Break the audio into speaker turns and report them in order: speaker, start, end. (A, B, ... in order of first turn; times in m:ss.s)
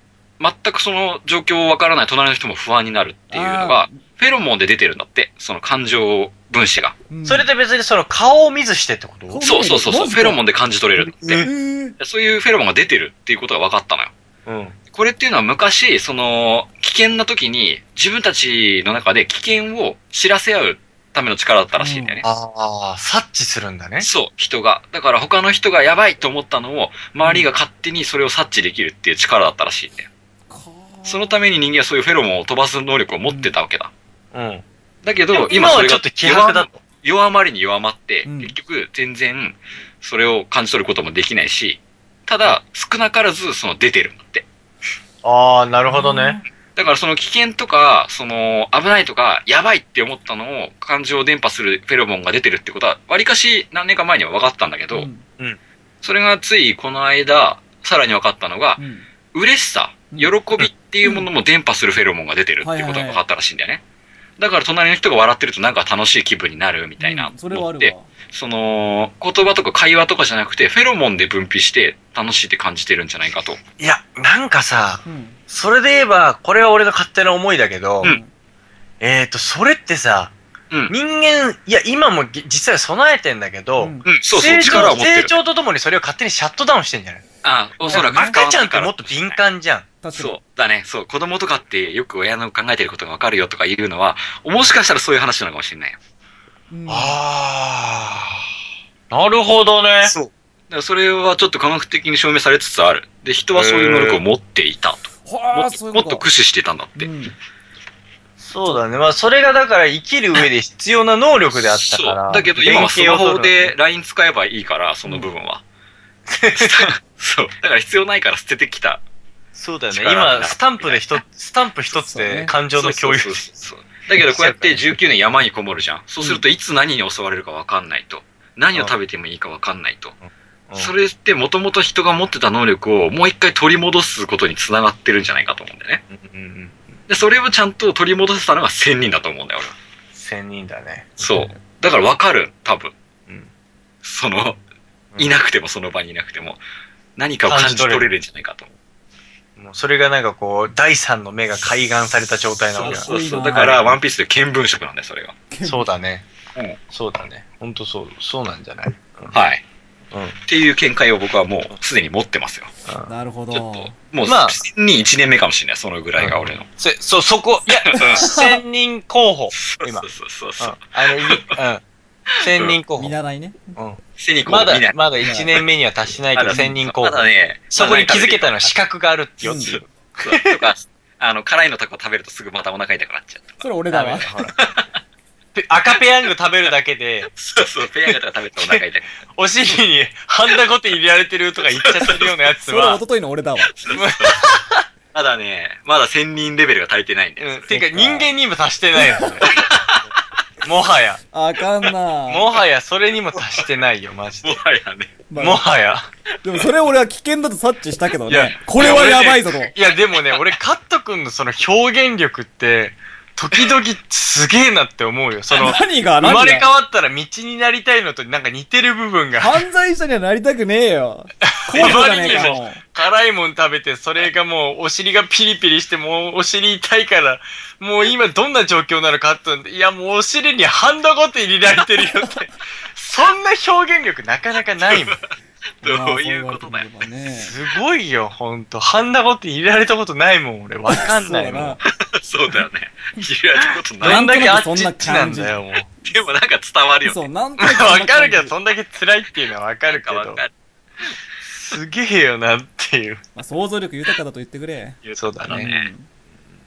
0:00.4-0:07.0 A
0:03.3-0:04.0 B
0:07.1-0:07.5 B
0:07.2-0:09.4 C
0:09.3-0:10.4 B
0:09.4-0:11.5 A
0:11.0-0:11.5 C
0:11.4-0:12.0 B
0:12.0-0:14.1 A
0:14.5-0:14.8 C
0:14.9-0:22.2 A
0:21.8-0:22.2 B
0:22.2-0:24.1 C
0:24.0-0:30.1 A
0:30.5-0:31.4 B
0:31.0-0:33.9 A
0:33.3-0:33.5 B
0:34.3-0:34.6 C
0:35.0-0:44.5 A
0:35.3-0:36.8 C
0:38.2-0:38.6 B
0:45.2-0:46.4 C
0:45.9-0:46.4 B
0:46.7-0:55.1 A
0:54.9-0:55.2 B
0:56.0-0:58.8 A
0:58.8-0:59.1 B
0:59.3-1:03.8 A
1:01.0-1:01.3 B
1:02.6-1:03.2 B
1:04.4-1:13.6 A
1:07.0-1:08.1 B
1:13.8-1:18.2 C
1:15.0-1:15.4 B
1:18.0-1:18.3 B
1:19.0-1:20.3 C
1:20.9-1:27.2 C
1:23.8-1:24.9 B
1:24.0-1:25.4 A
1:27.4-1:29.4 A
1:27.8-1:28.4 B
1:27.9-1:29.9 C
1:30.0-1:30.4 B
1:30.2-1:36.0 A
1:36.7-1:37.2 B
1:36.9-1:38.5 C
1:39.1-1:40.1 C
1:40.0-1:47.1 A
1:43.5-1:44.2 C
1:45.3-1:46.3 B
1:47.0-1:47.3 B
1:48.4-1:53.7 C
1:51.7-1:55.6 A
1:56.3-1:56.9 C
1:56.5-1:59.0 A
1:59.5-2:03.5 C
1:59.9-2:01.2 A
2:02.0-2:02.5 B
2:02.7-2:10.2 A
2:04.2-2:04.8 C
2:10.2-2:10.9 C
2:10.8-2:16.0 A
2:16.1-2:16.9 C
2:17.1-2:19.8 A
2:20.1-2:21.2 C
2:21.2-2:23.0 A
2:24.0-2:24.6 A
2:25.2-2:26.6 A
2:27.2-2:28.7 A
2:27.5-2:28.1 C
2:29.6-2:33.9 C
2:32.7-2:35.4 A
2:32.8-2:33.9 B
2:35.5-2:35.9 B
2:35.6-2:36.2 C
2:36.9-2:39.4 C
2:39.3-2:39.6 A
2:40.1-2:40.4 C
2:40.5-2:42.7 A
2:43.1-2:44.0 B
2:43.5-2:46.7 A
2:44.2-2:44.6 C
2:46.2-2:50.1 C
2:47.7-2:48.3 A
2:48.2-2:48.6 B
2:49.6-2:51.6 A
2:50.6-2:51.8 C
2:52.3-2:52.8 A
2:52.4-2:53.2 C
2:53.0-2:53.8 B
2:53.8-3:00.7 C
2:54.2-2:55.6 A
2:55.2-2:55.5 B
2:56.3-2:58.8 A
2:56.5-2:56.8 B
2:59.4-2:59.8 B
3:00.2-3:03.6 A
3:03.6-3:04.4 B
3:03.9-3:04.6 C
3:04.5-3:04.9 A
3:05.6-3:07.3 C
3:07.3-3:09.1 A
3:08.1-3:08.8 C
3:09.4-3:13.0 C
3:11.8-3:12.3 A
3:12.6-3:13.8 B
3:13.7-3:14.5 A
3:13.9-3:14.8 C
3:15.1-3:17.7 A
3:17.4-3:19.6 C
3:17.7-3:18.3 B
3:19.0-3:19.4 B
3:19.5-3:20.0 A
3:20.6-3:21.2 C
3:21.3-3:22.5 B
3:22.3-3:24.6 C
3:24.4-3:25.2 A
3:25.3-3:25.6 B
3:25.4-3:26.1 C
3:26.4-3:29.7 B
3:28.3-3:39.6 C
3:28.8-3:30.6 A
3:35.6-3:36.7 B
3:39.4-3:42.8 B
3:41.5-3:55.2 C
3:41.8-3:42.6 A
3:52.0-3:52.5 B
3:54.9-3:55.3 A
3:55.8-3:56.9 A
3:55.8-3:57.6 B
3:57.3-4:01.8 C
4:00.9-4:01.8 B
4:02.0-4:04.3 A
4:04.0-4:05.9 C
4:04.0-4:06.2 B
4:06.0-4:07.2 A
4:07.0-4:08.6 B
4:07.6-4:10.4 C
4:09.9-4:10.5 A
4:11.4-4:13.2 C
4:13.4-4:16.1 B
4:15.0-4:15.9 A
4:15.2-4:15.7 C